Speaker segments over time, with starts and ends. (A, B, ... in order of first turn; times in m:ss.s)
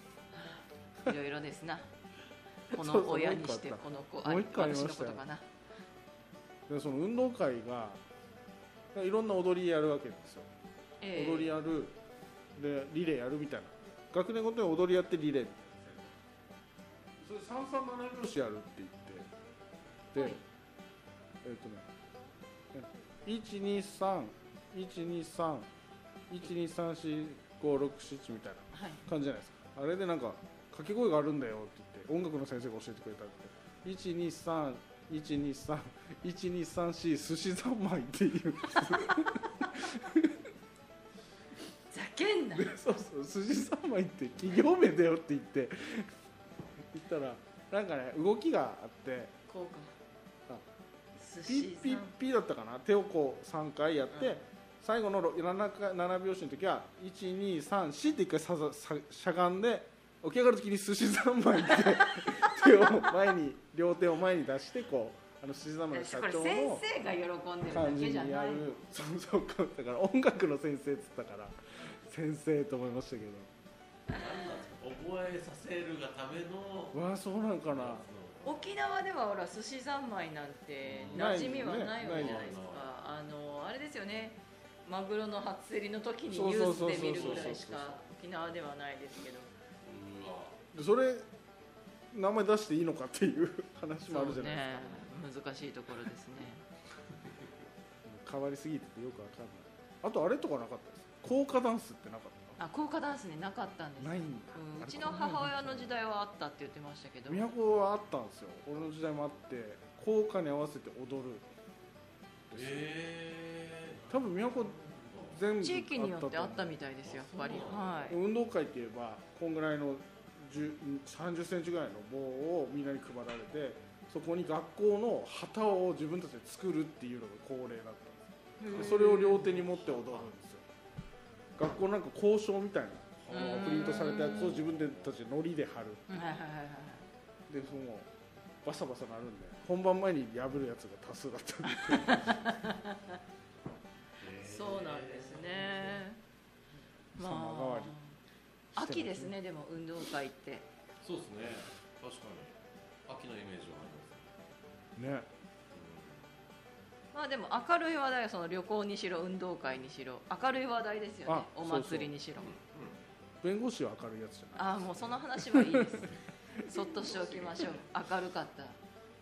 0:00.3-0:01.9 A
0:02.7-0:05.5 A
0:02.7-0:05.2 B
0:06.7-0:08.0 B
0:08.9-0:10.5 B
0:11.0-0:11.5 A
0:11.1-0:12.0 B
0:12.6-0:16.0 B
0:17.2-0:19.3 B
0:20.2-0:20.4 A
0:21.4-0:21.9 B
0:22.7-0:25.7 B
0:26.3-0:40.4 B
0:28.7-0:29.0 A
0:41.9-0:42.7 A
0:42.6-0:46.1 B
0:46.9-0:49.3 B
0:49.5-0:50.0 A
0:51.2-0:52.1 A
0:51.5-1:06.8 B
0:54.1-0:54.4 A
1:01.6-1:02.9 A
1:05.9-1:08.7 A
1:07.7-1:13.5 B
1:14.1-1:17.0 C
1:16.9-1:18.0 B
1:17.7-1:18.7 C
1:18.4-1:29.5 A
1:20.8-1:22.9 C
1:21.1-1:22.4 B
1:26.3-1:28.0 B
1:27.0-1:27.6 C
1:29.8-1:30.6 C
1:30.7-1:31.3 B
1:32.1-1:35.0 B
1:34.1-1:36.6 A
1:38.0-1:42.6 B
1:42.6-1:47.5 A
1:44.0-1:45.9 B
1:47.3-1:51.5 B
1:52.5-1:52.8 B
1:52.5-1:55.4 C
1:54.1-1:54.8 B
1:55.3-1:56.8 B
1:55.6-1:58.2 A
1:57.0-1:58.1 C
1:58.1-2:10.6 B
2:08.6-2:09.7 A
2:09.7-2:10.2 C
2:11.6-2:16.1 B
2:13.3-2:14.2 C
2:13.3-2:14.6 A
2:16.1-2:17.1 A
2:17.5-2:18.1 B
2:18.6-2:22.7 B
2:21.7-2:23.2 A
2:24.2-2:26.0 C
2:24.4-2:26.2 A
2:27.2-2:28.0 B
2:27.2-2:28.2 A
2:28.8-2:30.7 A
2:28.8-2:29.3 B
2:31.0-2:32.6 C
2:33.1-2:34.3 C
2:35.0-2:35.3 B
2:35.7-2:36.3 C
2:37.1-2:42.5 A
2:41.3-2:42.1 B
2:42.4-2:43.0 C
2:43.4-2:44.9 B
2:44.6-2:48.8 A
2:45.4-2:46.1 B
2:46.6-2:46.8 B
2:47.1-2:47.8 C